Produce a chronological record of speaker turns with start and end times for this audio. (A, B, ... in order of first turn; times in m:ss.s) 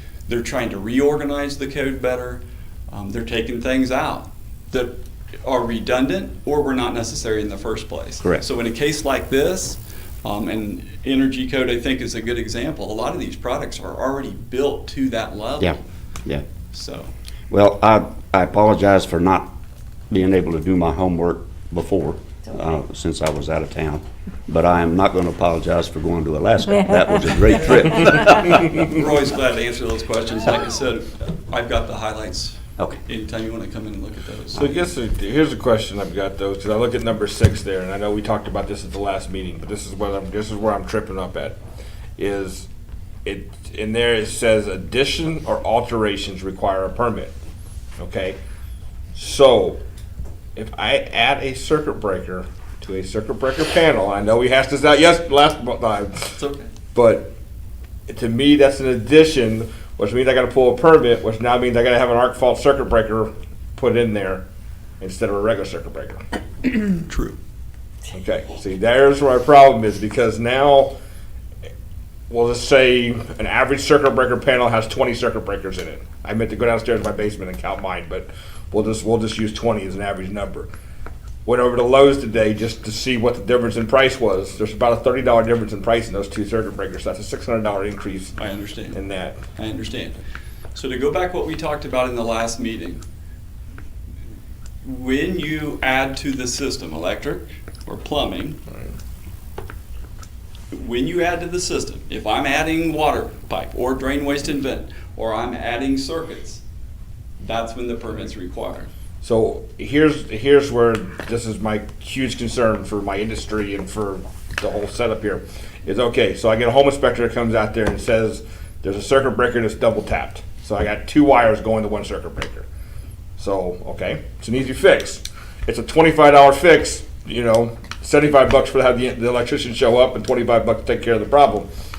0:00.3-0:15.8 A
0:15.6-0:16.4 B
0:16.7-0:17.1 A
0:17.5-0:19.5 B
0:20.1-0:29.0 B
0:28.7-0:34.7 A
0:34.6-0:41.6 C
0:42.2-0:42.7 C
0:43.2-0:47.3 C
0:48.0-0:48.4 C
0:49.1-0:49.8 C
0:50.6-0:56.3 C
0:56.4-0:56.7 A
0:56.9-0:57.3 C
0:58.1-1:04.4 C
1:05.0-1:06.2 C
1:07.0-1:07.4 A
1:08.1-1:10.9 C
1:12.3-1:20.7 C
1:21.4-1:28.3 C
1:28.4-1:29.0 A
1:28.9-1:29.4 C
1:29.6-1:30.2 A
1:30.7-1:33.0 A
1:34.8-1:38.6 A
1:40.7-1:46.6 A
1:47.4-1:48.9 A
1:49.2-2:02.7 C
2:03.4-2:11.7 C